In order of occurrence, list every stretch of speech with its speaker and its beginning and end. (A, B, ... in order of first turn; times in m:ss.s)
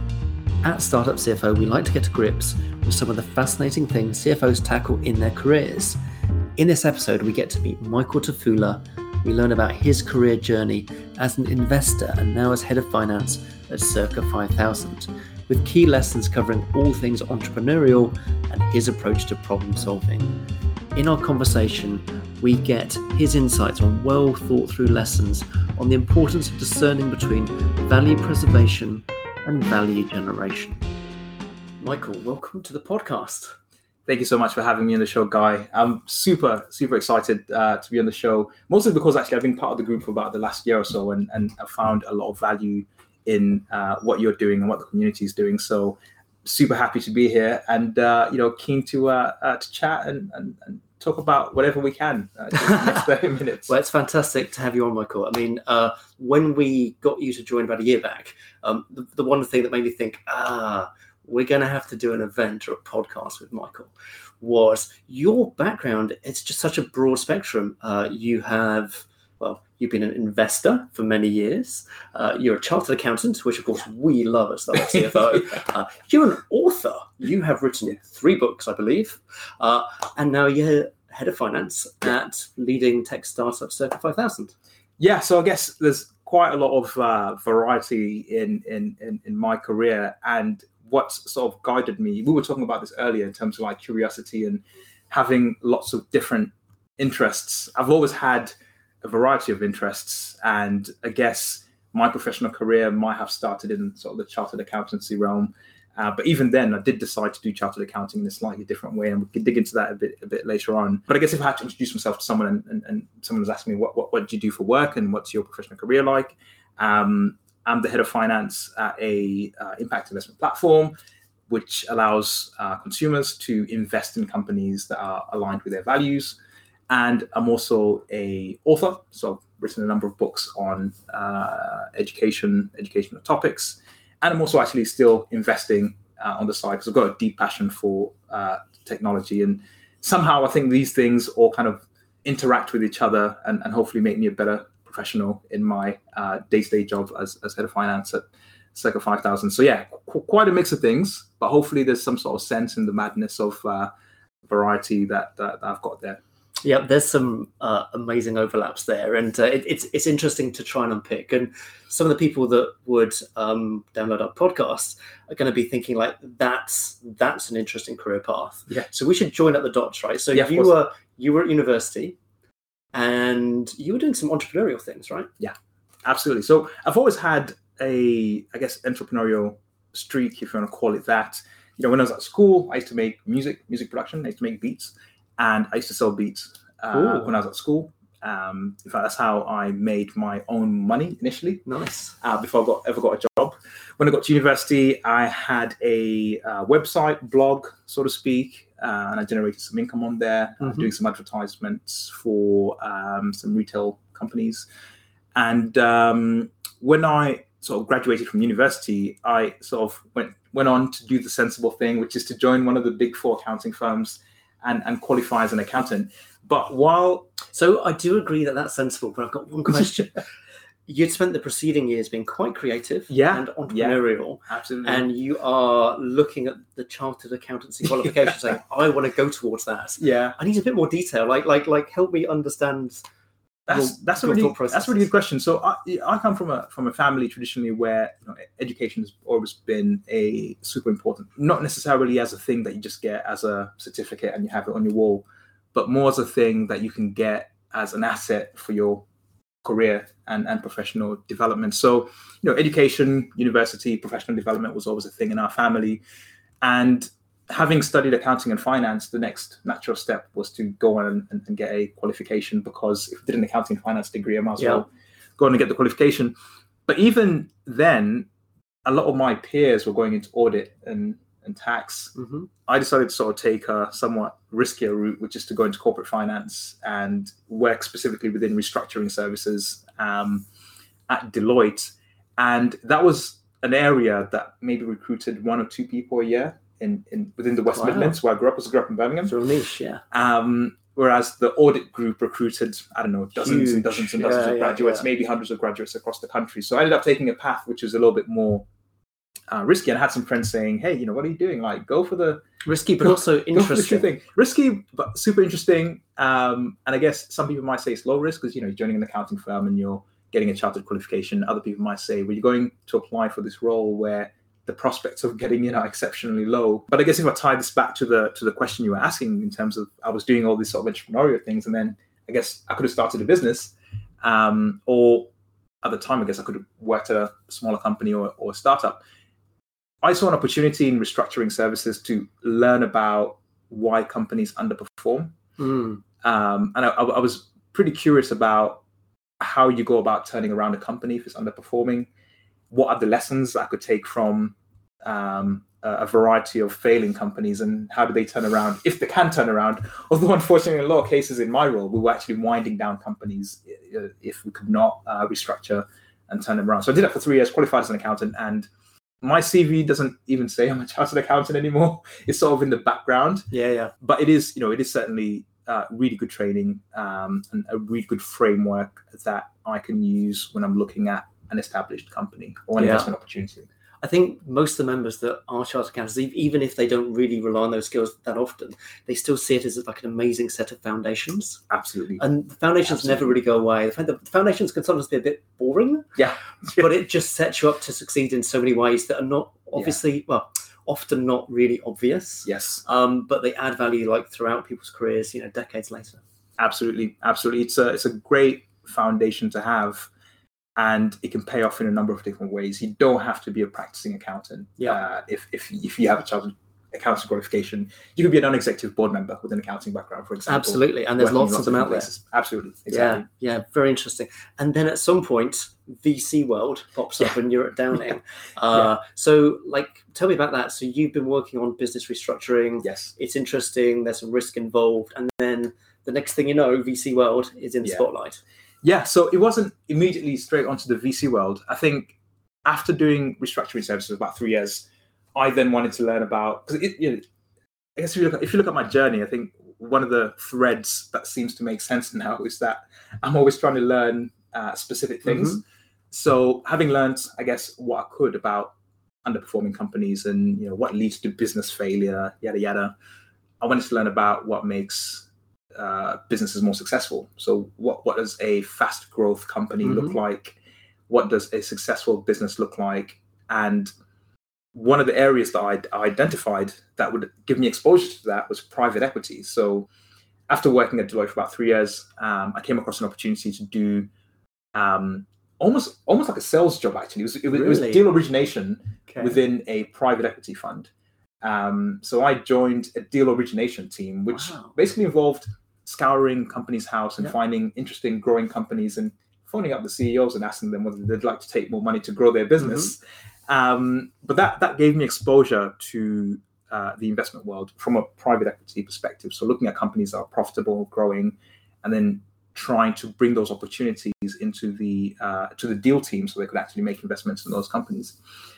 0:00.6-0:06.0 A
0:06.6-0:20.3 A
0:21.0-0:30.9 A
0:31.8-0:33.6 A
0:34.1-0:53.7 B
0:52.6-0:53.0 A
0:53.7-1:24.6 A
1:25.0-2:00.9 B
2:01.5-2:06.4 B
2:06.9-2:33.9 B
2:34.5-2:36.2 B
2:36.6-2:52.2 A
2:50.3-2:50.8 B
2:52.9-2:55.3 A
2:55.4-3:11.6 B
3:06.9-3:07.3 A
3:11.7-3:12.2 A
3:12.2-3:24.7 B
3:20.6-3:20.9 A
3:25.4-3:37.3 B
3:37.5-3:40.2 A
3:40.9-3:53.0 A
3:43.1-3:45.1 B
3:50.0-3:50.4 B
3:53.7-4:09.1 B
3:53.7-3:55.1 A
4:09.6-4:16.0 B
4:16.6-4:26.3 B
4:24.6-4:24.8 A
4:26.9-4:28.3 B
4:28.8-4:32.2 B
4:32.2-4:32.5 A
4:32.7-4:40.5 B
4:41.1-4:49.3 B
4:47.7-4:48.2 A
4:49.3-4:50.0 A
4:50.1-4:58.6 B
4:53.4-4:55.1 A
4:59.5-5:02.4 B
5:02.6-5:04.1 A
5:03.0-5:25.3 B
5:25.8-5:29.0 B
5:30.0-5:35.4 B
5:35.6-5:36.0 A
5:36.2-5:38.8 B
5:39.4-5:42.1 B
5:42.7-5:58.7 B
5:59.2-6:13.7 B
6:03.5-6:03.9 A
6:12.8-6:13.1 A
6:14.0-6:21.6 A
6:21.7-6:22.2 B
6:22.2-6:26.1 A
6:22.8-6:23.4 B
6:26.2-6:26.9 B
6:26.7-6:36.2 A
6:32.4-6:32.8 B
6:36.6-6:40.1 B
6:40.8-6:53.3 B
6:50.5-6:52.1 A
6:52.9-7:08.4 A
7:02.8-7:03.1 B
7:08.8-7:17.2 B
7:18.0-7:33.0 B
7:25.3-7:25.6 A
7:33.6-7:40.6 B
7:39.8-7:40.2 A
7:41.1-7:43.9 B
7:44.7-7:49.9 B
7:50.5-7:54.1 B
7:54.8-8:00.9 B
7:57.5-7:58.0 A
7:59.1-7:59.4 A
8:01.4-8:28.2 B
8:04.3-8:04.8 A
8:12.6-8:12.9 A